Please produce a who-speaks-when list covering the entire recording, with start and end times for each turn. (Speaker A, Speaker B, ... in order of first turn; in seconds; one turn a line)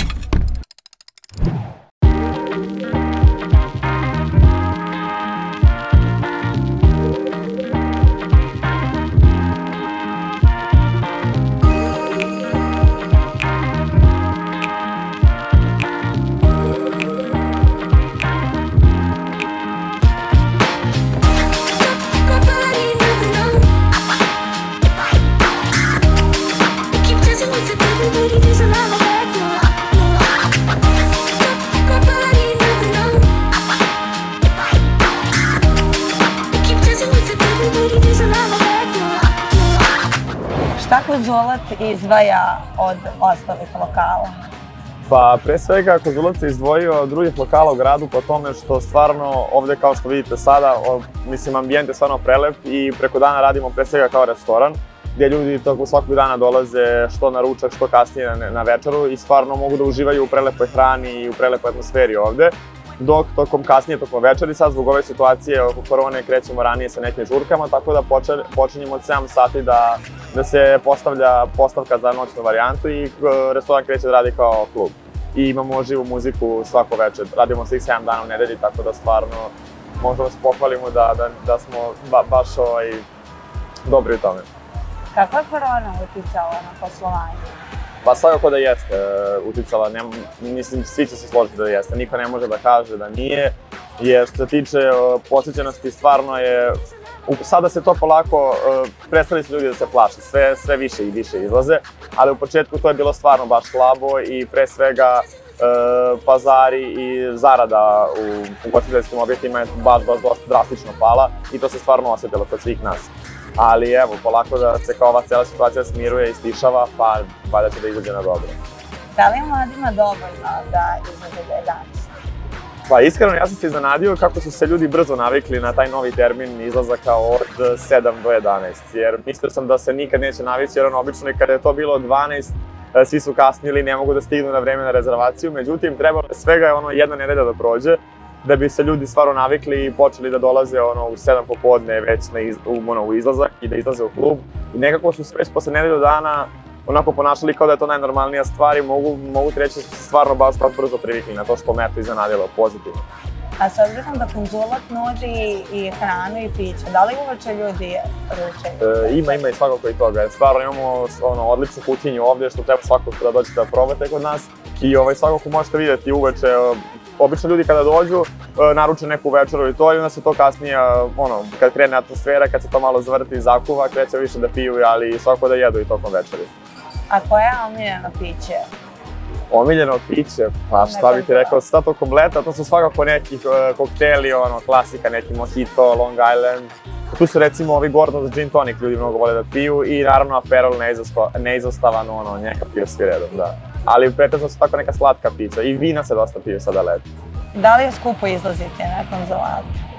Speaker A: 22.1-23.7
Speaker A: 26.9-30.2
Speaker A: 31.5-33.4
Speaker A: 36.5-39.8
Speaker A: 40.8-44.4
Speaker B: 45.1-83.0
Speaker B: 83.8-84.5
Speaker A: 85.1-87.5
Speaker B: 88.0-118.6
Speaker A: 119.1-122.1
Speaker B: 122.9-153.0
Speaker A: 153.6-159.4
Speaker B: 158.8-176.5
Speaker A: 177.1-178.7
Speaker B: 179.5-197.1
Speaker A: 180.8-181.6
Speaker A: 197.5-199.8